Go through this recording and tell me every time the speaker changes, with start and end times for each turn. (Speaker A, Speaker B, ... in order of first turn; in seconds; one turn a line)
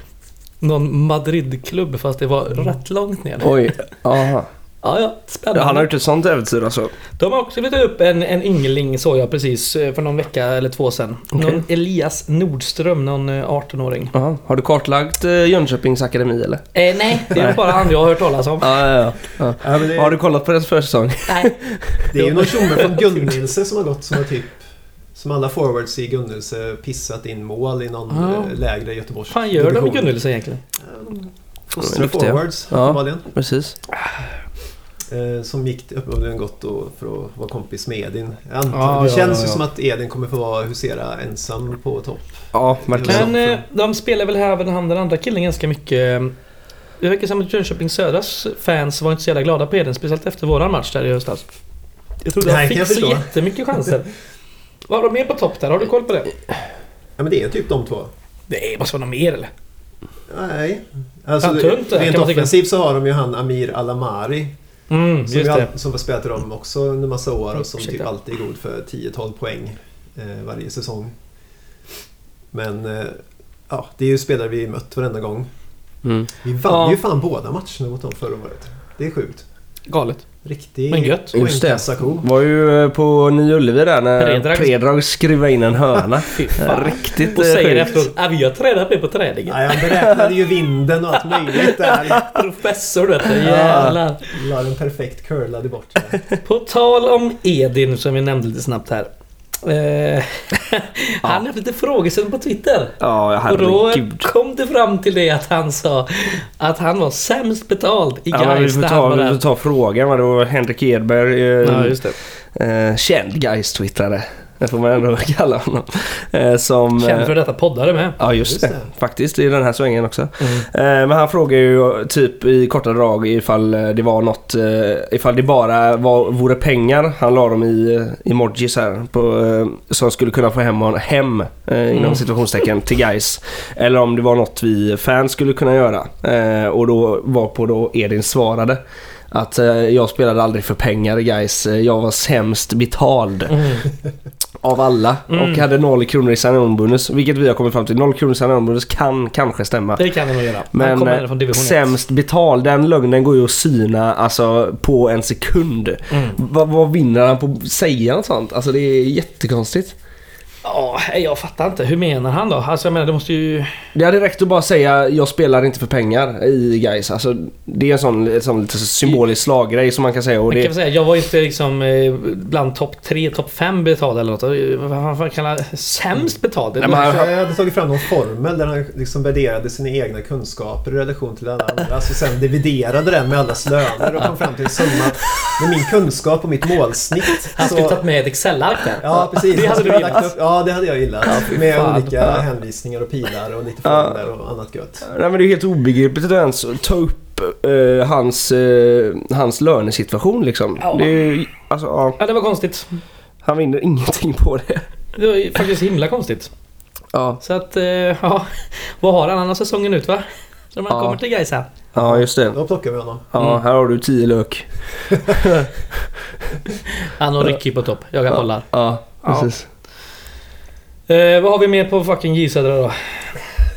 Speaker A: 0.6-3.7
Speaker B: 3.4-4.5
Speaker A: 4.8-5.9
Speaker B: 5.5-6.9
Speaker A: 7.2-14.1
Speaker B: 11.3-11.6
Speaker B: 14.1-17.8
Speaker A: 16.7-18.9
Speaker B: 18.6-22.1
Speaker C: 19.6-20.2
Speaker A: 21.3-21.6
Speaker C: 22.1-30.2
Speaker A: 22.1-23.3
Speaker A: 28.1-28.6
Speaker A: 29.3-30.6
Speaker C: 30.8-33.3
Speaker B: 31.8-33.8
Speaker C: 35.1-43.6
Speaker A: 38.7-39.6
Speaker B: 42.5-43.3
Speaker A: 43.1-46.3
Speaker A: 47.0-51.5
Speaker A: 52.2-54.1
Speaker C: 52.4-53.3
Speaker A: 54.9-56.3
Speaker C: 57.2-58.1
Speaker A: 58.5-59.5
Speaker C: 60.3-64.5
Speaker A: 61.4-62.5
Speaker A: 64.9-65.7
Speaker C: 65.3-71.2
Speaker A: 67.6-68.1
Speaker C: 72.5-75.5
Speaker B: 76.0-76.3
Speaker C: 76.4-79.5
Speaker A: 76.7-77.0
Speaker A: 79.9-80.3
Speaker C: 80.4-82.3
Speaker A: 80.9-81.4
Speaker B: 81.3-88.1
Speaker A: 84.2-84.8
Speaker A: 86.3-90.1
Speaker C: 89.5-92.3
Speaker A: 91.5-94.3
Speaker C: 93.4-96.2
Speaker B: 93.5-94.0
Speaker A: 96.4-99.1
Speaker A: 99.6-109.4
Speaker B: 103.0-104.3
Speaker B: 108.3-117.3
Speaker A: 111.6-112.2
Speaker A: 117.0-118.2
Speaker B: 118.2-138.8
Speaker C: 118.3-118.9
Speaker A: 120.4-120.7
Speaker A: 131.9-132.2
Speaker B: 139.3-143.6
Speaker A: 143.5-143.9
Speaker B: 144.6-150.1
Speaker A: 145.3-145.6
Speaker A: 150.0-151.9
Speaker B: 150.7-159.9
Speaker A: 156.1-156.4
Speaker A: 160.6-163.8
Speaker B: 163.9-170.7
Speaker A: 170.5-177.2
Speaker B: 176.8-177.3
Speaker C: 176.9-188.0
Speaker A: 187.6-190.3
Speaker C: 189.0-195.1
Speaker A: 191.2-192.4
Speaker B: 193.8-194.2
Speaker B: 195.1-202.2
Speaker A: 200.8-201.1
Speaker A: 202.2-203.0
Speaker B: 203.4-204.8
Speaker A: 205.2-206.5
Speaker B: 207.1-207.4
Speaker A: 207.4-211.7
Speaker B: 210.9-211.2
Speaker B: 211.9-212.6
Speaker C: 211.9-213.3
Speaker B: 213.3-216.1
Speaker A: 217.1-218.7
Speaker B: 218.3-219.7
Speaker A: 219.2-219.5
Speaker A: 221.1-223.3